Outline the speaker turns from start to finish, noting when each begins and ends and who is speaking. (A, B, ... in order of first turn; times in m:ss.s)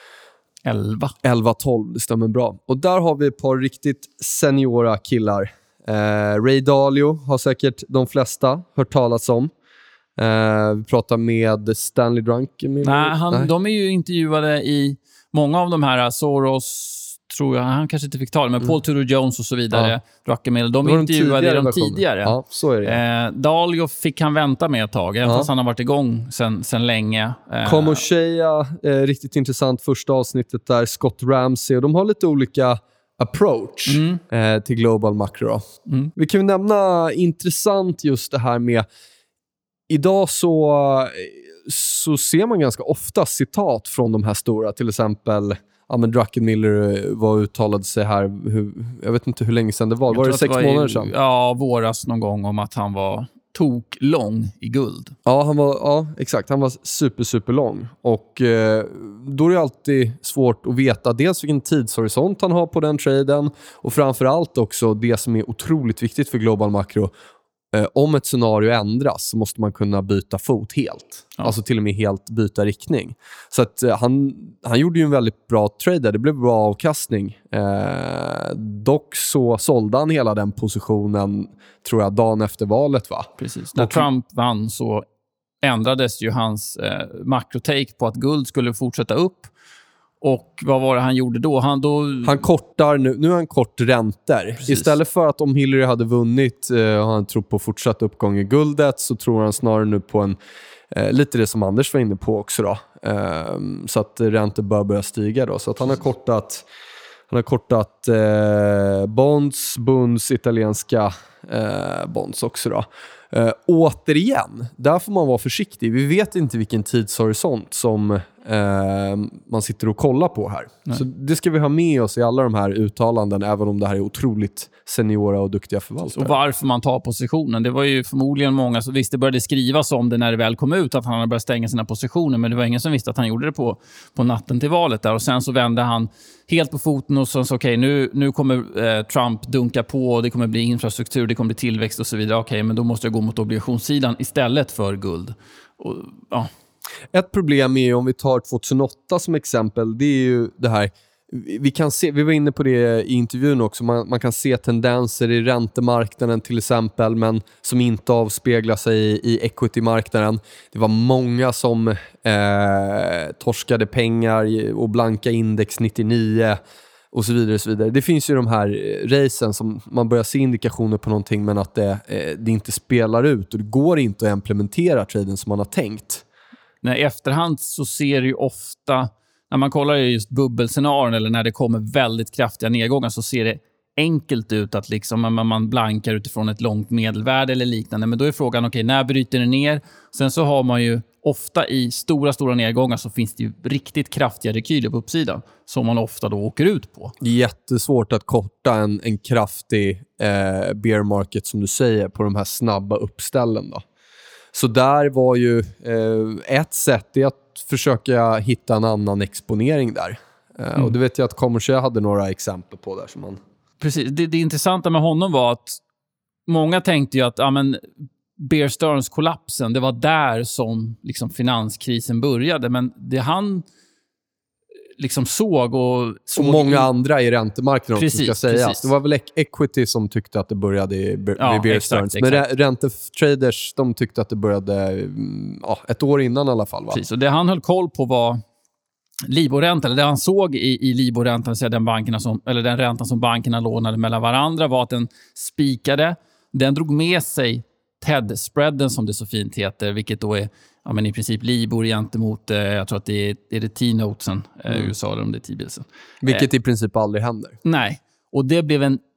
0:00.6-0:01.2 A
0:01.2-0:09.5 B
0:10.2-0:13.5 B
0:12.8-0:28.0 A
0:20.8-0:23.0 B
0:25.2-0:25.5 B
0:27.6-0:35.6 B
0:33.9-0:34.2 A
0:36.2-0:38.9 B
0:39.9-0:51.1 B
0:50.1-0:55.2 A
0:55.3-1:07.1 B
1:07.7-1:24.1 B
1:23.4-1:25.0 A
1:25.6-1:29.5 A
1:30.2-1:32.4 A
1:32.2-1:40.4 B
1:34.6-1:34.9 A
1:40.9-1:46.7 B
1:47.3-2:06.4 B
2:06.1-2:26.5 A
2:27.1-2:46.6 B
2:47.1-2:56.2 B
2:56.8-3:17.1 A
3:17.2-3:23.8 B
3:24.5-3:33.4 B
3:33.8-3:35.8 A
3:36.5-3:43.6 A
3:45.0-3:46.9 A
3:46.3-3:57.0 B
3:48.0-3:48.9 A
3:51.4-3:52.5 A
3:56.9-3:58.4 A
3:59.2-4:16.4 A
4:16.2-4:17.6 B
4:17.6-4:19.0 A